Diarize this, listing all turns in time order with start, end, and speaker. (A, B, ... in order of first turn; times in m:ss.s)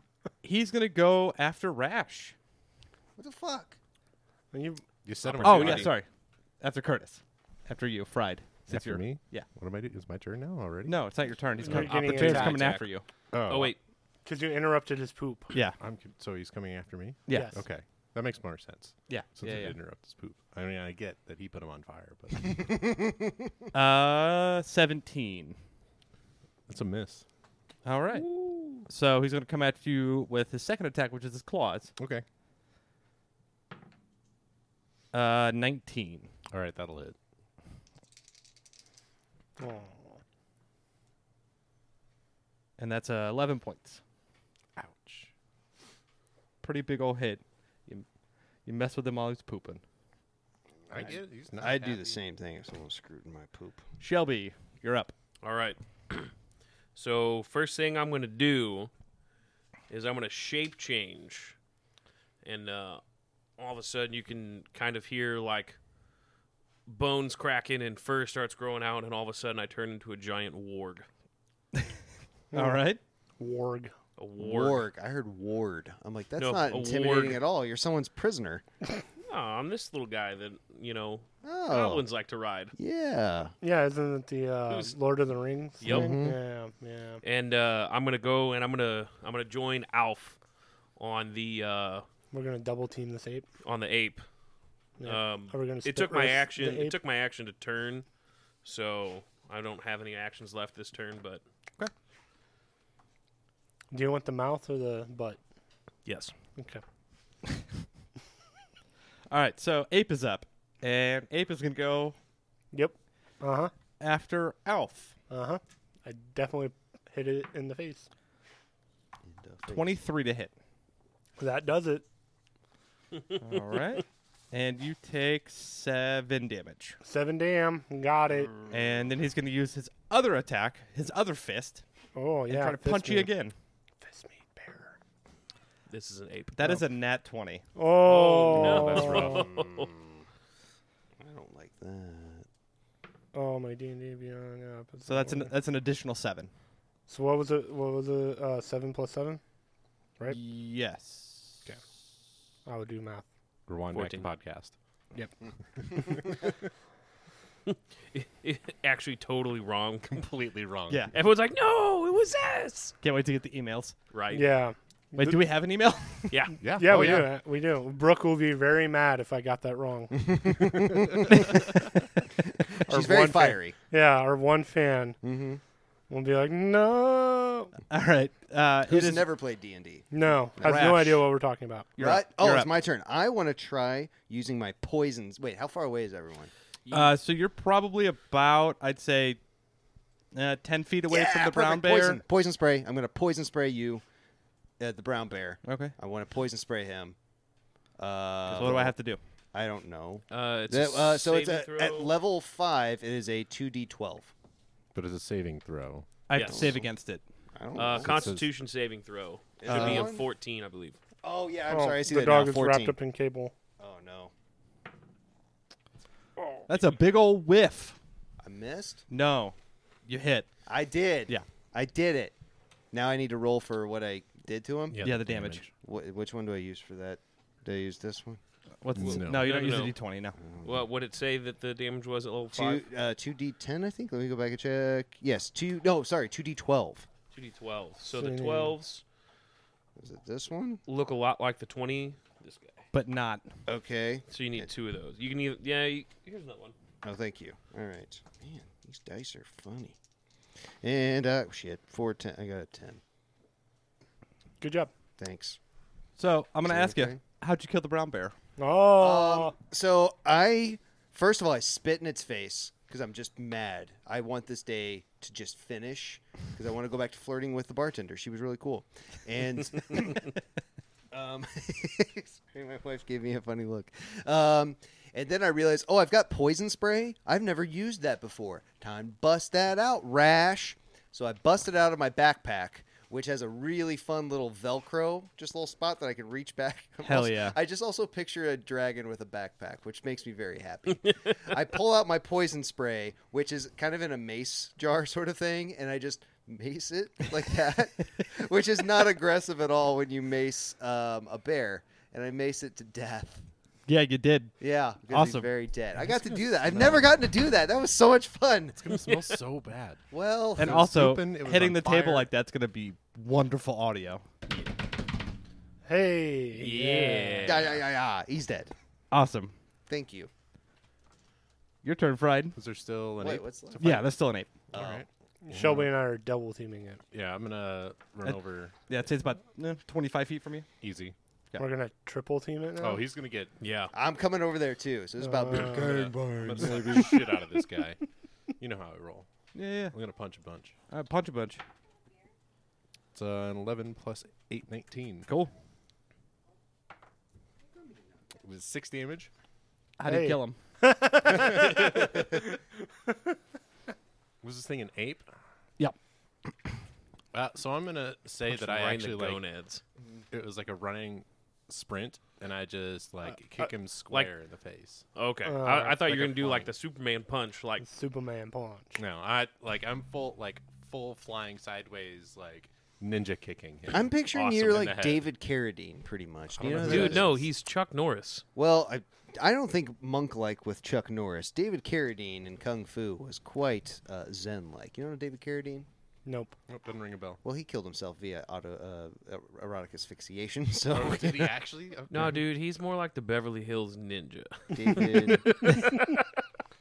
0:00.4-0:02.3 A
0:03.2-0:03.8 B
0:04.5-0:04.8 C
0:05.0-0:06.0 D
0:05.4-0:05.9 E
0:05.4-0:06.1 A
0:06.6-0:09.5 A
0:08.7-0:11.0 D
0:10.8-0:13.0 A
0:11.6-0:12.8 C
0:11.8-0:12.8 E
0:13.3-0:13.7 D
0:13.5-0:13.8 E
0:14.2-0:15.5 C
0:15.5-0:15.8 A
0:15.8-0:22.9 D
0:17.3-0:17.5 A
0:17.3-0:17.6 C
0:19.1-0:19.8 A
0:22.9-0:23.3 B
0:23.7-0:25.6 A
0:26.7-0:27.2 D
0:27.8-0:28.3 A
0:28.2-0:28.8 E
0:28.8-0:31.9 A
0:32.0-0:32.2 D
0:35.1-0:36.3 A
0:36.5-0:37.1 D
0:39.6-0:40.0 C
0:42.8-0:44.0 A
0:44.8-0:45.3 D
0:46.6-0:48.0 A
0:48.6-0:49.8 A
0:50.9-0:52.2 D
0:50.9-0:53.8 B
0:54.0-0:55.1 A
0:55.4-0:56.3 E
0:56.9-0:58.9 E
0:59.9-1:01.6 E
1:02.4-1:03.0 E
1:03.6-1:05.8 E
1:06.8-1:11.1 E
1:12.5-1:12.8 C
1:12.5-1:13.0 A
1:13.4-1:13.9 C
1:14.2-1:14.8 E
1:14.4-1:18.6 B
1:16.4-1:17.4 E
1:19.2-1:22.7 E
1:21.4-1:22.0 B
1:22.7-1:23.5 B
1:23.6-1:27.2 C
1:24.7-1:25.0 E
1:25.8-1:26.2 E
1:25.9-1:26.4 B
1:27.2-1:30.4 E
1:31.0-1:32.0 E
1:32.3-1:33.5 C
1:33.6-1:34.2 E
1:35.0-1:36.9 C
1:35.0-1:38.0 E
1:38.6-1:41.4 E
1:43.9-1:45.4 C
1:46.0-1:46.3 E
1:46.6-1:46.8 C
1:49.3-1:52.2 A
1:52.7-1:53.7 C
1:54.0-1:55.2 A
1:55.3-1:58.1 C
1:59.2-2:00.0 B
1:59.7-2:00.5 A
2:01.4-2:02.0 C
2:03.4-2:07.0 A
2:07.0-2:08.5 C
2:08.4-2:08.7 B
2:08.7-2:11.8 A
2:12.1-2:13.3 C
2:12.5-2:13.5 A
2:14.0-2:15.0 C
2:15.9-2:16.5 E
2:16.5-2:17.6 A
2:17.8-2:19.5 C
2:18.0-2:19.9 E
2:18.5-2:19.4 D
2:19.3-2:20.2 B
2:21.2-2:22.4 B
2:23.3-2:25.5 C
2:25.0-2:26.5 A
2:27.1-2:29.4 C
2:30.3-2:31.6 A
2:32.6-2:33.2 C
2:33.7-2:34.7 D
2:33.9-2:34.3 E
2:36.0-2:36.4 D
2:37.7-2:40.2 E
2:40.1-2:41.1 D
2:41.1-2:42.9 E
2:43.0-2:44.0 A
2:44.1-2:44.5 E
2:44.3-2:45.4 C
2:45.1-2:46.4 A
2:46.3-2:47.2 E
2:46.6-2:47.3 D
2:46.7-2:50.6 C
2:50.3-2:51.7 B
2:52.6-2:53.8 B
2:52.9-2:55.2 C
2:55.2-2:55.6 B
2:56.1-2:57.7 C
2:57.9-2:59.3 A
2:58.9-3:00.9 B
3:00.1-3:01.9 C
3:00.6-3:01.2 A
3:02.0-3:02.7 A
3:02.0-3:06.5 B
3:06.9-3:07.1 E
3:06.9-3:09.4 A
3:10.3-3:12.2 A
3:11.1-3:14.0 B
3:14.8-3:17.2 B
3:15.6-3:15.9 A
3:18.0-3:18.9 B
3:18.5-3:19.2 A
3:19.5-3:24.3 B
3:20.3-3:22.1 E
3:24.9-3:26.1 D
3:26.3-3:27.2 A
3:26.3-3:26.6 E
3:26.4-3:26.9 B
3:27.5-3:28.3 B
3:27.8-3:31.0 E
3:27.8-3:28.5 D
3:29.6-3:30.2 B
3:29.7-3:30.1 A
3:31.2-3:33.0 B
3:31.7-3:33.5 C
3:33.8-3:34.3 B
3:36.7-3:38.0 A
3:38.4-3:39.0 B
3:39.1-3:39.5 A
3:40.0-3:40.5 A
3:40.6-3:42.3 B
3:42.9-3:45.1 B
3:44.9-3:45.7 D
3:45.0-3:45.7 A
3:45.8-3:48.4 B
3:48.8-3:50.4 A
3:49.0-3:49.8 D
3:49.3-3:49.9 E
3:50.4-3:50.8 B
3:50.6-3:52.8 E
3:52.5-3:57.1 B
3:57.3-3:59.0 E
3:58.1-3:58.7 C
4:00.0-4:00.8 B
4:00.9-4:02.8 E
4:02.9-4:03.5 A
4:03.6-4:04.7 B
4:04.3-4:06.7 E
4:07.0-4:10.0 B
4:10.8-4:13.0 B
4:14.6-4:14.9 C
4:15.2-4:15.6 B
4:16.2-4:18.3 A
4:16.6-4:17.2 B
4:18.6-4:19.5 C
4:19.0-4:30.4 B
4:31.1-5:03.5 B
4:47.0-4:47.6 A
5:03.9-5:05.5 A
5:04.6-5:08.8 B
5:06.0-5:07.1 D
5:08.7-5:10.0 D
5:08.9-5:09.4 E
5:10.1-5:10.8 B
5:10.6-5:14.2 A
5:10.6-5:12.3 D
5:15.8-5:17.5 C
5:16.5-5:17.7 E
5:17.4-5:18.7 B
5:19.1-5:19.5 A
5:19.9-5:20.3 B
5:21.8-5:22.6 A
5:22.6-5:24.0 D
5:23.2-5:24.0 B
5:23.8-5:24.5 A
5:24.7-5:25.0 B
5:24.7-5:25.9 D
5:25.4-5:27.0 C
5:27.1-5:28.7 D
5:28.2-5:30.7 A
5:30.8-5:31.1 D
5:31.6-5:33.1 C
5:32.8-5:33.5 D
5:33.6-5:33.9 E
5:33.9-5:37.1 B
5:35.2-5:36.0 C
5:35.8-5:38.0 D
5:36.1-5:37.1 A
5:36.9-5:37.4 C
5:38.6-5:39.3 D
5:39.5-5:39.9 A
5:39.9-5:40.7 D
5:40.9-5:41.6 A
5:43.1-5:45.3 D
5:45.2-5:45.5 A
5:48.4-5:49.3 D
5:50.0-5:50.6 A
5:50.0-5:52.4 C
5:54.4-5:55.3 D
5:57.3-5:59.4 D
5:58.5-5:59.8 E
6:00.3-6:05.0 D
6:05.1-6:07.8 E
6:05.4-6:06.0 C
6:06.0-6:06.7 D
6:07.8-6:09.0 C
6:09.0-6:15.2 D
6:13.9-6:17.4 B
6:16.6-6:17.4 D
6:16.8-6:18.4 E
6:18.6-6:25.9 B
6:26.2-6:26.5 C
6:26.7-6:27.4 D
6:27.4-6:31.5 B
6:30.9-6:32.4 D
6:32.1-6:36.0 E
6:34.7-6:35.7 B